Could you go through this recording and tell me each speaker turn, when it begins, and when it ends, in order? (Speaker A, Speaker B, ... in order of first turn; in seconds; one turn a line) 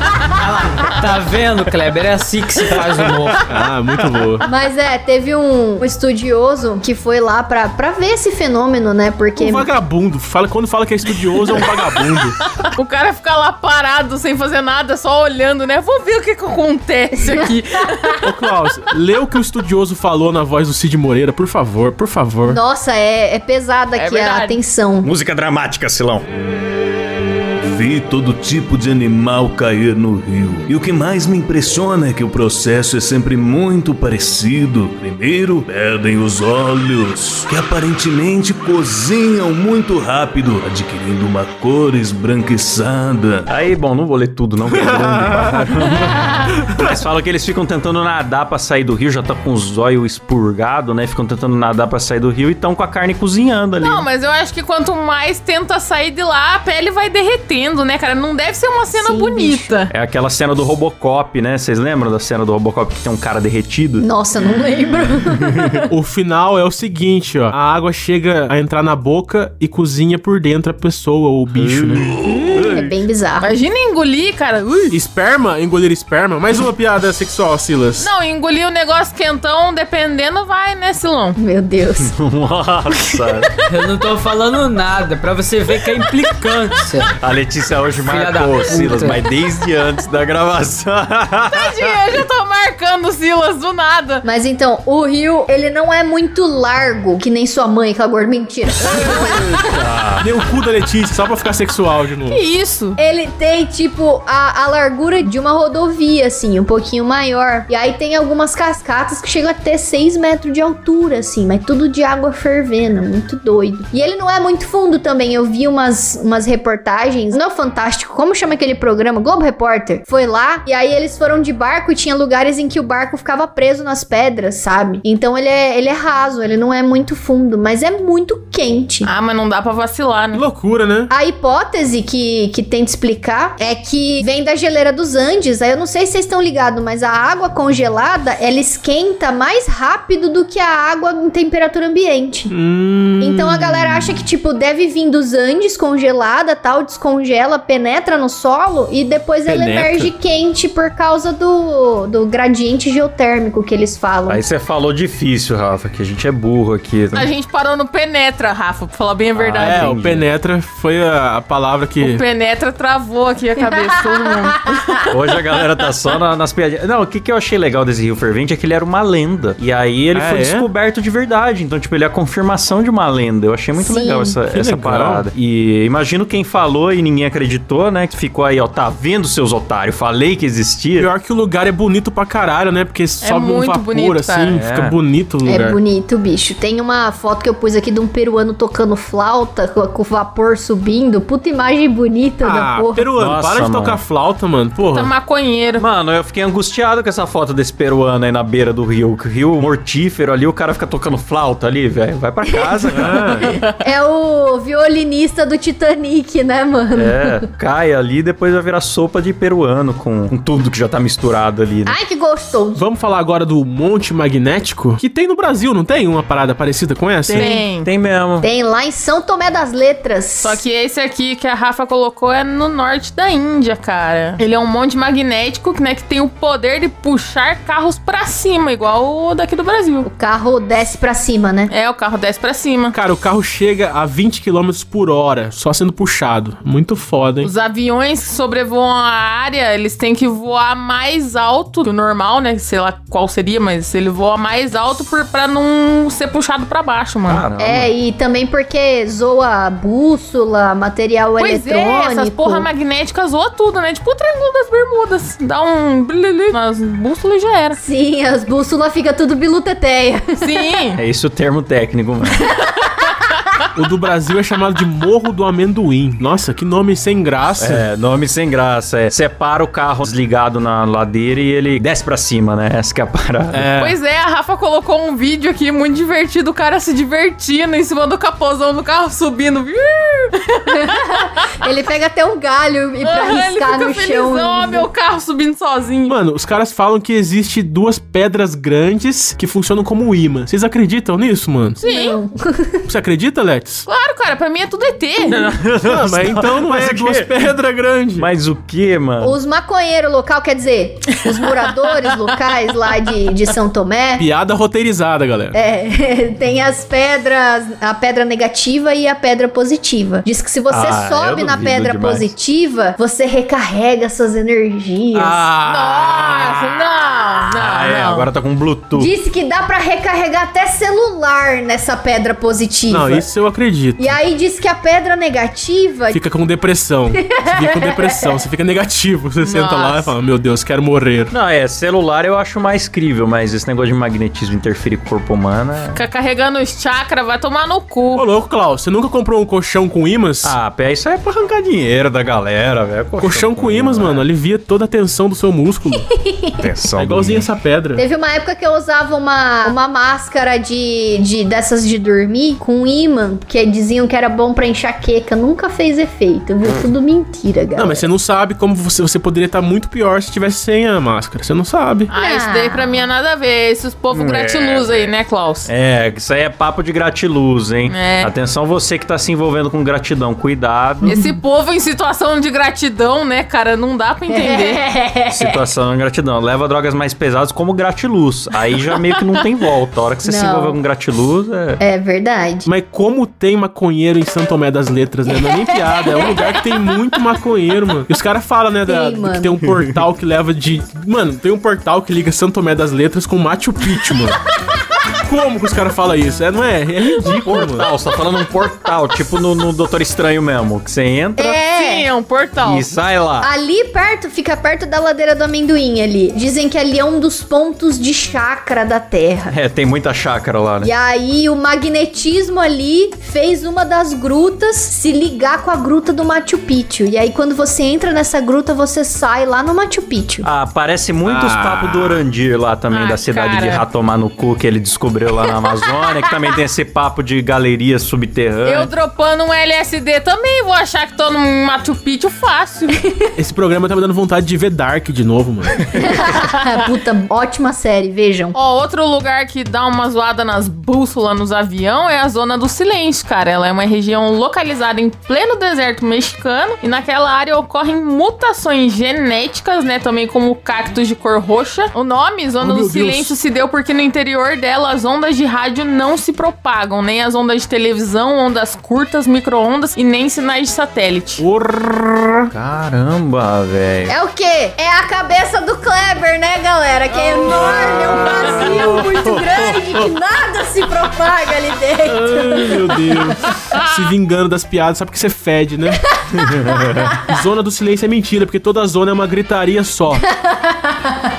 Speaker A: 0.3-3.4
Speaker B: 3.5-4.5
Speaker C: 4.4-9.7
Speaker B: 9.4-12.4
Speaker D: 12.6-18.2
Speaker C: 17.2-17.5
Speaker B: 18.2-22.6
Speaker C: 22.4-25.1
Speaker D: 23.9-24.6
Speaker E: 25.0-26.2
Speaker F: 27.6-43.5
Speaker E: 43.5-54.0
Speaker B: 44.7-46.9
Speaker D: 53.8-59.9
Speaker C: 58.9-59.7
Speaker E: 59.9-64.0
Speaker C: 64.0-65.9
Speaker B: 65.9-72.7
Speaker E: 71.5-72.9
Speaker C: 72.7-73.5
Speaker D: 73.4-75.0
Speaker B: 74.9-78.1
Speaker D: 78.0-81.4
Speaker C: 81.4-82.1
Speaker E: 82.0-83.5
Speaker A: 83.7-87.1
Speaker E: 87.2-92.2
Speaker A: 88.0-89.2
Speaker D: 91.5-94.2
Speaker C: 94.2-99.4
Speaker E: 98.9-100.2
Speaker B: 100.2-102.4
Speaker D: 102.3-103.0
Speaker C: 103.0-129.1
Speaker D: 129.0-130.4
Speaker B: 130.3-131.1
Speaker C: 131.1-142.5
Speaker B: 142.5-144.2
Speaker C: 143.2-154.4
Speaker B: 149.5-150.1
Speaker E: 154.3-157.3
Speaker D: 157.1-159.9
Speaker E: 159.3-160.2
Speaker B: 159.6-162.2
Speaker D: 162.0-165.1
Speaker E: 165.1-181.1
Speaker B: 170.1-170.7
Speaker C: 173.8-174.4
Speaker B: 174.5-175.2
Speaker B: 180.9-185.8
Speaker D: 183.2-184.6
Speaker E: 184.5-185.0
Speaker C: 185.4-193.1
Speaker B: 192.4-195.1
Speaker E: 193.2-194.0
Speaker D: 194.9-195.8
Speaker E: 195.8-203.5
Speaker C: 202.5-207.4
Speaker B: 202.9-203.5
Speaker E: 206.9-212.0
Speaker C: 211.8-212.8
Speaker B: 212.7-217.5
Speaker E: 217.2-218.5
Speaker D: 217.3-217.9
Speaker C: 218.4-220.6
Speaker D: 220.4-230.1
Speaker C: 230.0-231.7
Speaker D: 231.7-232.9
Speaker B: 232.9-237.5
Speaker D: 237.4-247.4
Speaker E: 247.3-247.9
Speaker C: 247.6-252.7
Speaker D: 251.4-257.8
Speaker C: 257.8-260.4
Speaker D: 260.4-261.0
Speaker E: 261.0-262.5
Speaker B: 263.7-267.8
Speaker E: 267.6-273.9
Speaker B: 273.5-273.9
Speaker D: 273.8-281.3
Speaker C: 280.7-284.9
Speaker D: 283.0-286.1
Speaker B: 286.1-291.8
Speaker C: 291.8-292.8
Speaker D: 291.8-292.2
Speaker B: 292.9-293.9
Speaker D: 293.9-295.4
Speaker E: 295.2-297.6
Speaker B: 295.8-298.3
Speaker E: 298.1-299.4
Speaker C: 299.2-304.2
Speaker B: 304.2-305.6
Speaker C: 305.5-315.4
Speaker E: 310.7-312.3
Speaker E: 315.1-316.7
Speaker D: 315.6-318.3
Speaker E: 317.5-319.1
Speaker C: 318.9-323.3
Speaker B: 322.9-324.2
Speaker C: 324.0-326.2
Speaker B: 326.1-331.3
Speaker C: 327.3-328.1
Speaker D: 329.4-330.1
Speaker E: 331.3-336.0
Speaker D: 335.9-338.2
Speaker B: 338.1-340.5
Speaker E: 340.4-344.2
Speaker B: 343.2-346.1
Speaker C: 346.1-346.6
Speaker E: 346.6-347.4
Speaker B: 347.0-348.0
Speaker C: 347.9-358.1
Speaker B: 357.8-362.1
Speaker D: 362.1-365.7
Speaker C: 362.1-363.0
Speaker E: 364.1-365.1
Speaker E: 365.6-371.1
Speaker D: 367.9-368.3
Speaker C: 371.1-371.3
Speaker D: 371.1-374.8
Speaker C: 374.3-375.6
Speaker E: 375.3-381.8
Speaker C: 380.2-380.8
Speaker C: 381.8-382.7
Speaker B: 382.6-394.4
Speaker C: 385.4-386.3
Speaker C: 388.9-389.6
Speaker E: 389.7-390.0
Speaker B: 395.2-397.9
Speaker E: 397.2-401.6
Speaker C: 401.4-402.1
Speaker D: 401.4-402.9
Speaker E: 402.6-403.5
Speaker C: 403.4-409.5
Speaker E: 409.5-410.9
Speaker C: 410.8-420.5
Speaker E: 420.4-428.9
Speaker B: 421.2-422.2
Speaker D: 422.9-423.8
Speaker D: 428.6-433.0
Speaker B: 433.4-435.9
Speaker C: 435.9-438.5
Speaker D: 438.5-461.4
Speaker B: 452.6-453.3
Speaker B: 461.4-462.5
Speaker E: 462.5-464.1
Speaker C: 464.1-472.9
Speaker B: 467.5-468.9
Speaker E: 467.6-470.1
Speaker B: 472.0-476.0
Speaker C: 476.1-477.2
Speaker E: 476.3-477.1
Speaker B: 477.2-480.2
Speaker C: 480.3-481.2